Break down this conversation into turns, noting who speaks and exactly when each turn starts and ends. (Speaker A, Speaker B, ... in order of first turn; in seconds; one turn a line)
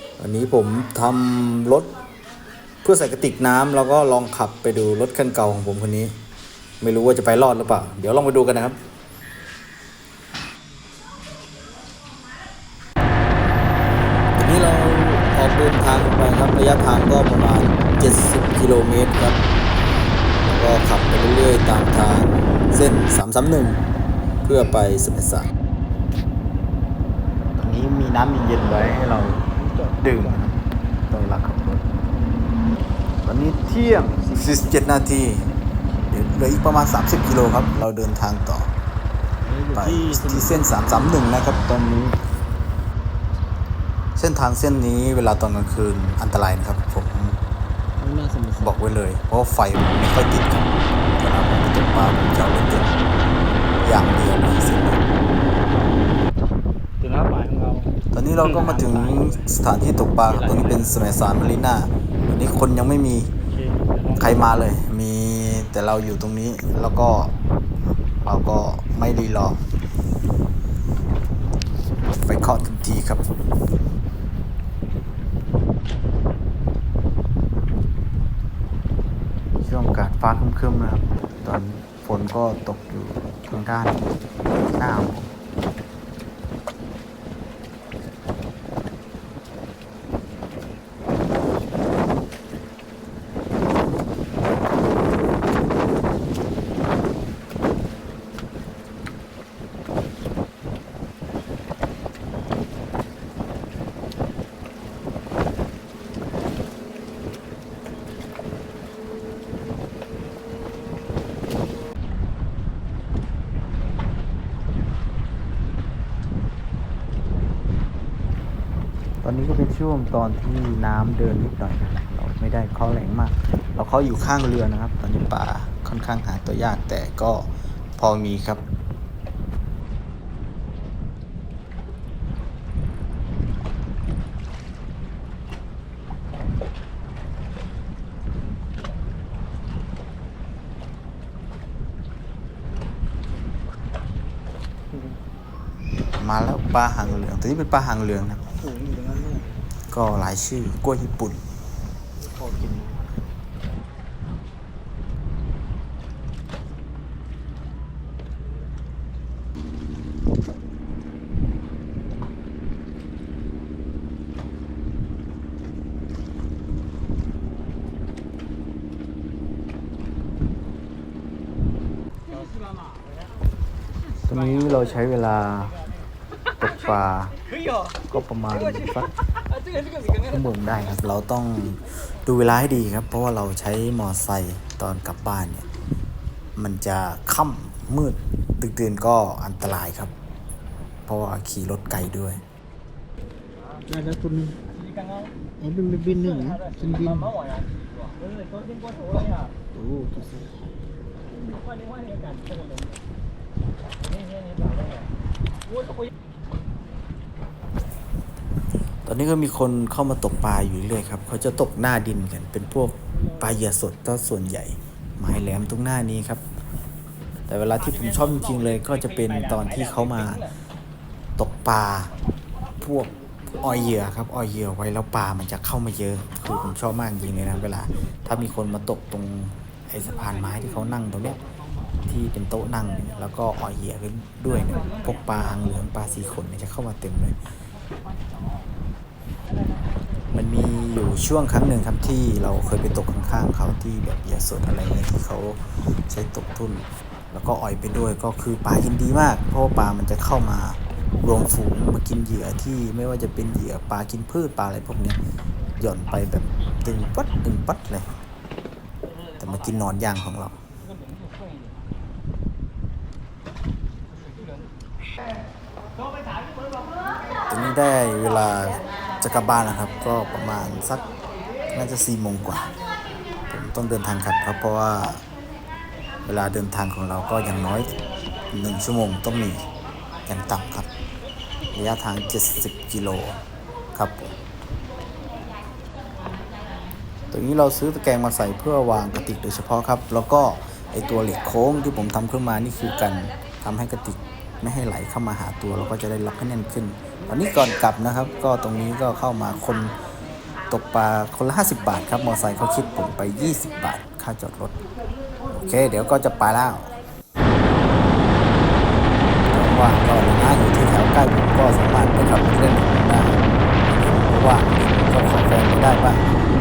Speaker A: 0.2-1.9
Speaker A: 2.8-6.1
Speaker A: 6.8-8.8
Speaker A: 14.3-19.4
Speaker A: 20.5-23.8
Speaker A: 24.4-25.5
Speaker A: 27.6-29.4
Speaker B: 29.6-30.4
Speaker A: 30.0-31.8
Speaker A: 33.2-35.5
Speaker A: 36.1-38.7
Speaker B: 39.4-40.6
Speaker A: 39.7-42.2
Speaker A: 44.1-47.4
Speaker B: 48.0-48.7
Speaker A: 48.6-52.9
Speaker A: 53.8-55.0
Speaker B: 57.0-59.4
Speaker A: 58.1-63.3
Speaker B: 60.3-61.0
Speaker B: 63.4-64.3
Speaker A: 64.2-67.3
Speaker A: 68.2-69.6
Speaker A: 72.2-73.2
Speaker A: 79.6-84.0
Speaker A: 84.7-85.3
Speaker A: 119.2-128.6
Speaker A: 146.2-148.5
Speaker B: 148.6-149.6
Speaker A: 149.9-151.4
Speaker B: 152.2-153.1
Speaker A: 174.3-175.8
Speaker A: 176.6-177.4
Speaker A: 178.0-179.1
Speaker A: 180.0-185.7
Speaker A: 186.6-190.1
Speaker A: 191.1-192.4
Speaker B: 194.1-194.5
Speaker B: 195.7-197.5
Speaker B: 200.0-200.4
Speaker A: 209.1-216.4
Speaker A: 217.5-220.5
Speaker A: 221.4-222.1
Speaker A: 222.8-231.4
Speaker A: 232.1-237.3
Speaker A: 240.3-255.2
Speaker A: 255.8-258.1
Speaker A: 259.4-260.6
Speaker A: 267.5-271.0
Speaker A: 271.7-272.7
Speaker A: 273.5-275.2
Speaker A: 276.2-277.9
Speaker A: 278.5-279.6
Speaker A: 280.3-280.9
Speaker A: 281.7-283.4
Speaker A: 283.9-284.3
Speaker A: 287.3-299.9
Speaker A: 300.7-304.7
Speaker A: 305.6-306.9
Speaker A: 309.4-316.4